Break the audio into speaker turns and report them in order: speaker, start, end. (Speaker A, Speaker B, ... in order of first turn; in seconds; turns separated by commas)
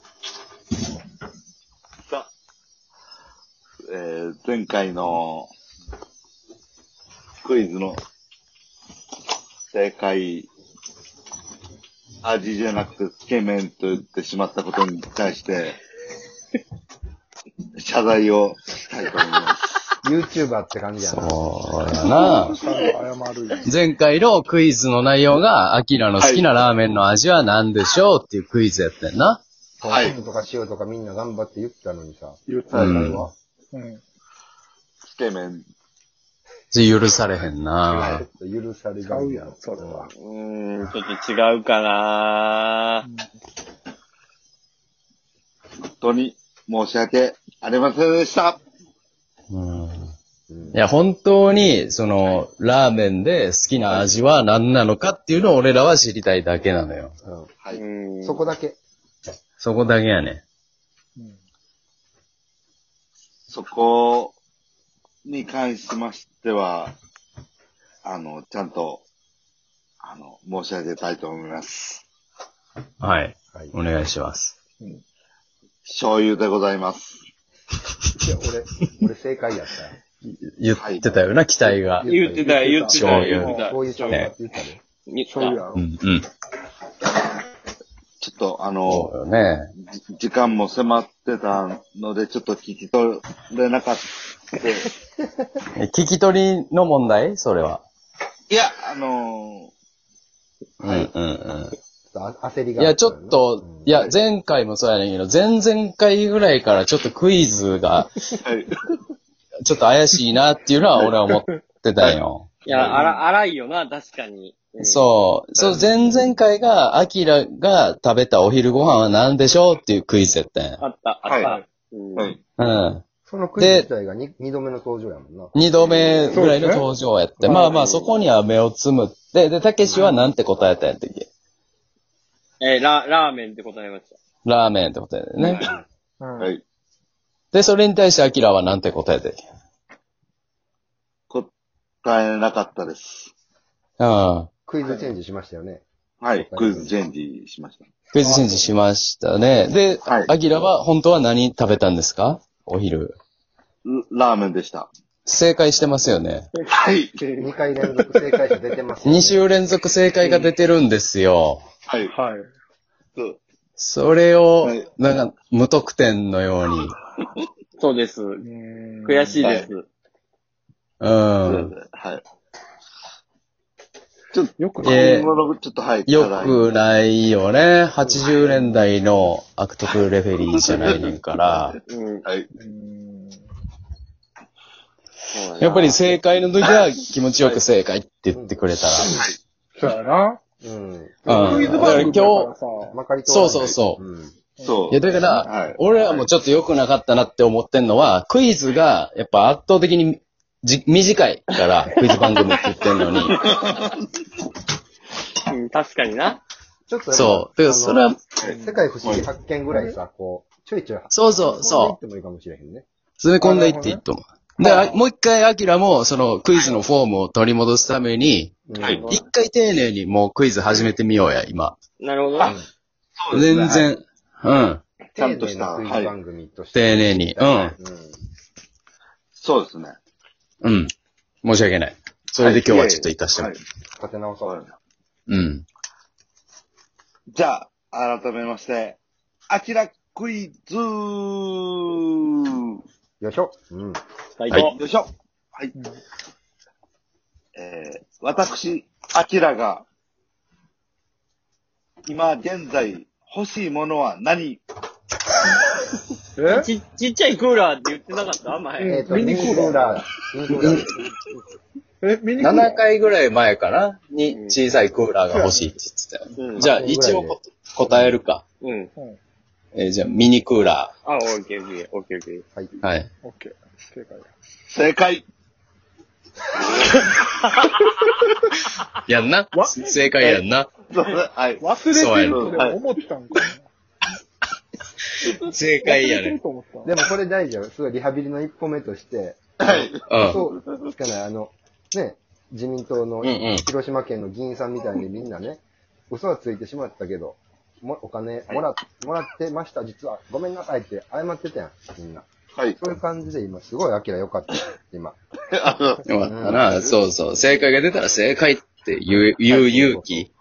Speaker A: 3.9-5.5, Speaker A: 7.4-8.0, Speaker A: 9.7-10.5, Speaker A: 12.2-15.8, Speaker A: 17.8-19.6, Speaker B: 20.0-21.4, Speaker C: 21.1-22.6, Speaker D: 21.9-23.7, Speaker A: 22.3-22.9, Speaker C: 23.6-29.4, Speaker A: 26.2-26.5, Speaker B: 29.8-33.3, Speaker A: 29.8-30.1, Speaker D: 32.5-33.1, Speaker A: 32.7-33.0, Speaker C: 32.7-33.3, Speaker D: 33.7-34.0, Speaker A: 35.0-35.7, Speaker C: 36.7-38.2, Speaker B: 37.9-40.1, Speaker D: 39.0-40.1, Speaker E: 40.2-43.0, Speaker D: 43.0-43.3, Speaker A: 45.9-48.6, Speaker C: 49.5-50.1, Speaker B: 50.5-50.8, Speaker C: 50.7-57.1, Speaker A: 53.9-54.2, Speaker B: 57.2-57.5, Speaker E: 57.7-58.5, Speaker B: 58.2-58.8, Speaker C: 59.6-60.4, Speaker A: 63.5-64.3, Speaker A: 65.2-66.9, Speaker A: 68.0-69.0, Speaker A: 70.0-72.0, Speaker C: 73.0-74.5, Speaker A: 75.8-77.2, Speaker B: 78.2-80.0, Speaker C: 80.2-82.1, Speaker A: 80.8-81.1, Speaker B: 82.0-82.6, Speaker E: 82.0-84.3, Speaker D: 82.3-83.7, Speaker C: 82.9-83.5, Speaker B: 83.5-84.8, Speaker E: 85.1-85.6, Speaker D: 85.3-85.8, Speaker C: 85.7-86.2, Speaker A: 88.2-89.1, Speaker C: 88.8-89.7, Speaker A: 89.9-94.9, Speaker C: 95.8-97.8, Speaker A: 98.5-99.7, Speaker C: 100.8-101.8, Speaker A: 100.8-101.1, Speaker B: 102.1-103.9, Speaker C: 102.8-108.2, Speaker A: 108.4-108.9, Speaker C: 109.6-113.0, Speaker D: 111.3-111.6, Speaker A: 112.0-113.2, Speaker E: 112.6-115.0, Speaker C: 114.8-120.8, Speaker A: 115.6-115.9, Speaker E: 120.8-122.3, Speaker A: 121.2-121.5, Speaker C: 122.6-123.0, Speaker B: 123.3-125.5, Speaker C: 123.6-123.9, Speaker C: 125.5-131.3, Speaker D: 126.3-126.8, Speaker D: 127.5-127.7, Speaker E: 127.5-128.1, Speaker B: 129.8-130.1, Speaker E: 132.6-134.2, Speaker C: 134.4-135.7, Speaker A: 135.4-135.7, Speaker D: 136.2-136.5, Speaker C: 137.5-139.4, Speaker A: 142.0-143.3, Speaker C: 144.0-144.5, Speaker B: 144.7-145.8, Speaker D: 144.8-145.1, Speaker A: 146.2-147.9, Speaker B: 146.3-146.9, Speaker C: 148.1-153.1, Speaker D: 148.2-148.7, Speaker A: 150.0-150.3, Speaker A: 153.8-154.9, Speaker C: 155.2-156.5, Speaker E: 156.5-157.5, Speaker A: 156.7-157.2, Speaker B: 157.4-159.5, Speaker C: 159.1-161.6, Speaker E: 160.2-160.5, Speaker A: 161.9-162.1, Speaker D: 162.0-162.5, Speaker A: 163.1-163.4, Speaker C: 163.8-167.0, Speaker A: 164.6-164.9, Speaker E: 167.8-168.4, Speaker D: 168.4-169.5, Speaker E: 169.0-169.9, Speaker A: 169.4-169.7, Speaker C: 171.0-171.7, Speaker A: 171.4-172.2, Speaker A: 174.3-176.7, Speaker D: 174.6-175.3, Speaker C: 174.8-175.3, Speaker C: 176.1-181.8, Speaker B: 178.0-178.7, Speaker A: 180.5-181.7, Speaker E: 181.9-182.2, Speaker D: 182.6-183.4, Speaker A: 185.3-186.0, Speaker C: 185.6-189.2, Speaker B: 188.3-188.6, Speaker D: 189.8-190.4, Speaker B: 190.6-192.1, Speaker D: 191.2-193.0, Speaker C: 191.3-192.5, Speaker B: 192.8-194.3, Speaker C: 193.3-194.0, Speaker D: 194.6-194.9, Speaker A: 194.6-196.2, Speaker C: 194.9-203.4, Speaker E: 202.1-202.5, Speaker A: 203.3-204.0, Speaker E: 205.5-206.4, Speaker B: 206.9-212.8, Speaker C: 207.1-208.2, Speaker A: 208.4-209.3, Speaker D: 208.4-208.9, Speaker C: 211.1-212.0, Speaker C: 213.2-221.8, Speaker D: 213.4-214.0, Speaker E: 214.6-214.9, Speaker B: 218.7-219.0, Speaker A: 218.8-219.1, Speaker E: 218.8-219.2, Speaker E: 222.0-222.5, Speaker A: 223.2-223.9, Speaker C: 223.3-224.8, Speaker B: 225.1-228.2, Speaker A: 225.2-226.1, Speaker C: 226.7-227.7, Speaker A: 229.3-230.0, Speaker C: 230.6-230.9, Speaker C: 231.4-233.5, Speaker A: 232.4-233.6, Speaker B: 234.0-234.6, Speaker A: 234.4-234.7, Speaker C: 235.3-235.6, Speaker A: 237.3-242.8, Speaker B: 243.2-244.0, Speaker E: 244.4-244.7, Speaker A: 244.7-245.7, Speaker A: 247.6-249.8, Speaker A: 252.1-254.6, Speaker D: 256.4-256.7, Speaker E: 256.4-259.7, Speaker D: 258.8-260.0, Speaker B: 258.9-261.1, Speaker C: 260.6-260.9, Speaker D: 262.0-262.8, Speaker C: 262.4-268.4, Speaker E: 264.3-264.6, Speaker D: 265.3-265.7, Speaker E: 266.4-266.6, Speaker B: 266.6-267.4, Speaker B: 267.9-268.2, Speaker E: 268.6-268.9, Speaker C: 269.7-270.9, Speaker E: 271.0-272.4, Speaker C: 272.8-273.1, Speaker D: 273.2-274.3, Speaker A: 274.7-275.2, Speaker C: 279.1-280.7, Speaker D: 279.5-280.1, Speaker A: 280.2-282.8, Speaker D: 281.6-283.7, Speaker C: 281.9-282.6, Speaker C: 285.2-286.4, Speaker D: 285.8-287.0, Speaker B: 286.8-305.2, Speaker A: 289.6-290.1, Speaker C: 290.1-290.4, Speaker C: 293.2-293.6, Speaker A: 305.5-307.0, Speaker C: 306.0-310.3, Speaker B: 306.2-306.7, Speaker B: 309.5-310.3